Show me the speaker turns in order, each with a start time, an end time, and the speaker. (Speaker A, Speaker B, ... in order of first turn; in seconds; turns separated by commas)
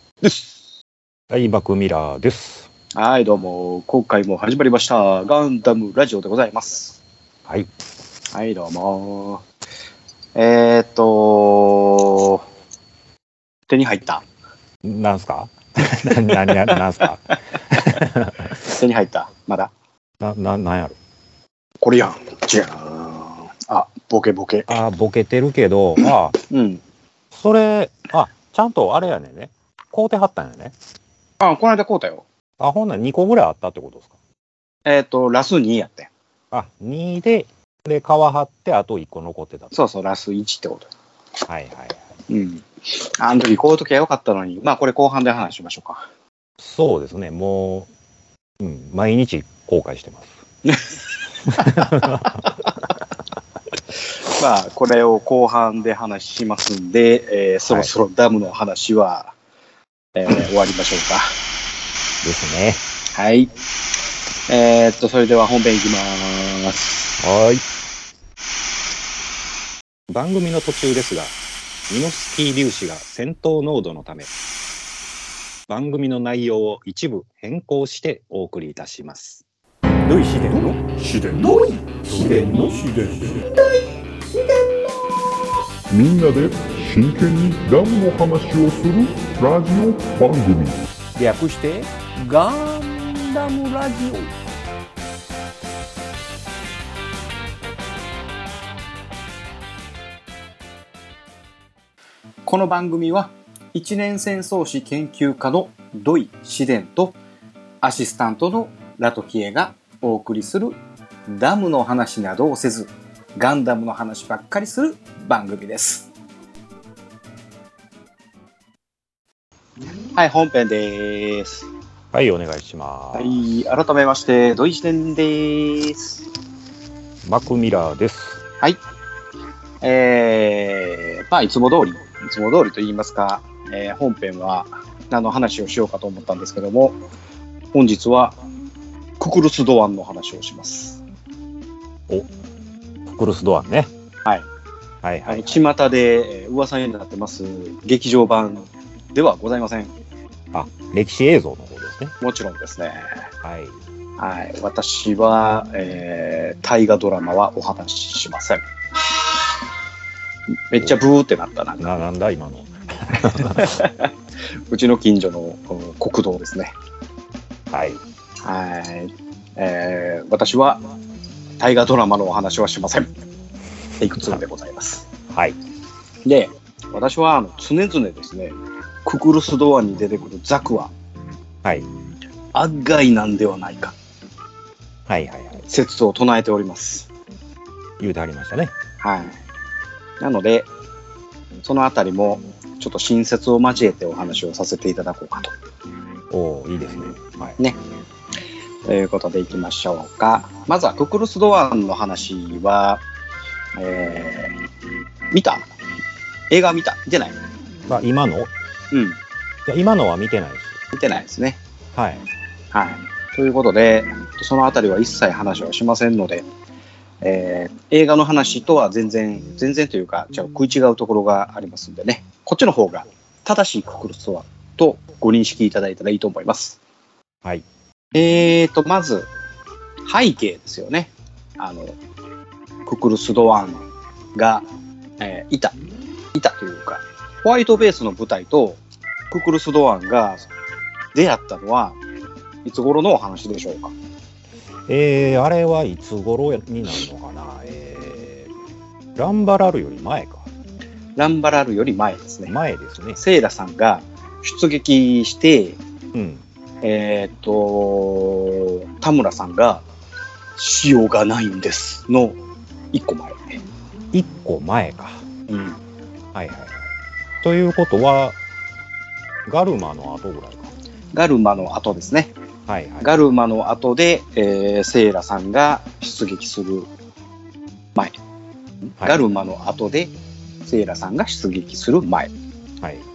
Speaker A: 0.2-0.5, Speaker B: 1.3-2.7, Speaker A: 2.9-7.0, Speaker A: 8.3-9.4, Speaker A: 10.3-12.4, Speaker A: 13.7-14.2, Speaker B: 14.8-18.5, Speaker A: 18.6-19.7, Speaker B: 20.2-20.9, Speaker A: 21.8-24.7, Speaker B: 24.7-26.4, Speaker A: 26.5-26.8, Speaker B: 27.3-30.7, Speaker A: 31.4-32.2, Speaker B: 32.6-34.1, Speaker A: 34.8-36.1, Speaker B: 36.5-39.7, Speaker A: 39.7-40.9, Speaker B: 41.5-42.0, Speaker A: 42.3-46.1, Speaker B: 46.6-47.9, Speaker B: 48.6-50.4, Speaker B: 51.5-52.4, Speaker A: 51.5-52.0, Speaker A: 54.3-59.3, Speaker B: 57.6-57.9, Speaker A: 60.1-61.3, Speaker B: 62.2-62.8, Speaker A: 63.1-63.5, Speaker A: 64.5-67.1, Speaker B: 67.2-67.6, Speaker B: 70.1-71.3, Speaker B: 71.9-74.3, Speaker B: 75.7-79.4, Speaker A: 80.1-80.8, Speaker C: 81.0-83.5, Speaker B: 82.1-82.8, Speaker D: 85.9-90.8, Speaker C: 91.2-94.3, Speaker A: 102.5-107.2, Speaker A: 107.8-116.1, Speaker A: 120.1-121.7, Speaker B: 122.1-123.5, Speaker A: 123.1-126.2, Speaker B: 127.2-128.4, Speaker A: 129.8-137.0, Speaker A: 137.7-138.4, Speaker A: 139.2-141.0, Speaker B: 143.1-143.9, Speaker B: 145.0-145.7, Speaker A: 145.3-149.9, Speaker B: 150.5-152.1, Speaker A: 152.2-153.3, Speaker B: 153.4-153.8, Speaker A: 154.2-159.2, Speaker A: 160.7-161.9, Speaker B: 161.8-163.8, Speaker A: 163.4-164.1, Speaker A: 164.7-166.7, Speaker B: 167.7-168.0, Speaker A: 168.4-170.8, Speaker A: 171.6-173.1, Speaker A: 174.0-175.1, Speaker B: 175.3-175.6, Speaker A: 176.2-180.9, Speaker A: 182.5-183.9, Speaker B: 185.1-185.6, Speaker A: 185.7-187.1, Speaker B: 188.0-188.7, Speaker A: 189.0-189.4, Speaker A: 190.2-190.7, Speaker A: 191.6-195.5, Speaker B: 196.3-197.6, Speaker A: 198.8-203.0, Speaker A: 203.8-204.5, Speaker A: 205.3-205.7, Speaker A: 206.5-207.3, Speaker B: 207.9-208.5, Speaker A: 208.9-209.2, Speaker B: 209.7-210.8, Speaker A: 210.9-211.6, Speaker B: 211.9-212.2, Speaker A: 212.7-216.4, Speaker A: 217.2-226.8, Speaker A: 228.1-229.3, Speaker A: 230.1-231.9, Speaker A: 232.8-233.8, Speaker A: 234.3-234.6, Speaker A: 235.2-235.7, Speaker A: 236.3-238.8, Speaker A: 239.3-240.4, Speaker A: 241.1-242.0, Speaker A: 242.6-243.9, Speaker B: 244.9-248.5, Speaker B: 249.1-250.5, Speaker A: 251.2-252.5, Speaker B: 252.5-253.2, Speaker A: 253.2-255.8, Speaker B: 256.1-256.4, Speaker A: 256.8-259.8, Speaker A: 260.6-262.4, Speaker A: 262.9-263.6, Speaker B: 264.1-265.2, Speaker A: 265.5-265.8, Speaker B: 266.3-266.9, Speaker B: 267.4-268.4, Speaker B: 269.5-270.7, Speaker A: 271.1-272.3, Speaker B: 272.7-273.1, Speaker A: 273.0-276.9, Speaker A: 278.9-280.1, Speaker A: 280.6-282.3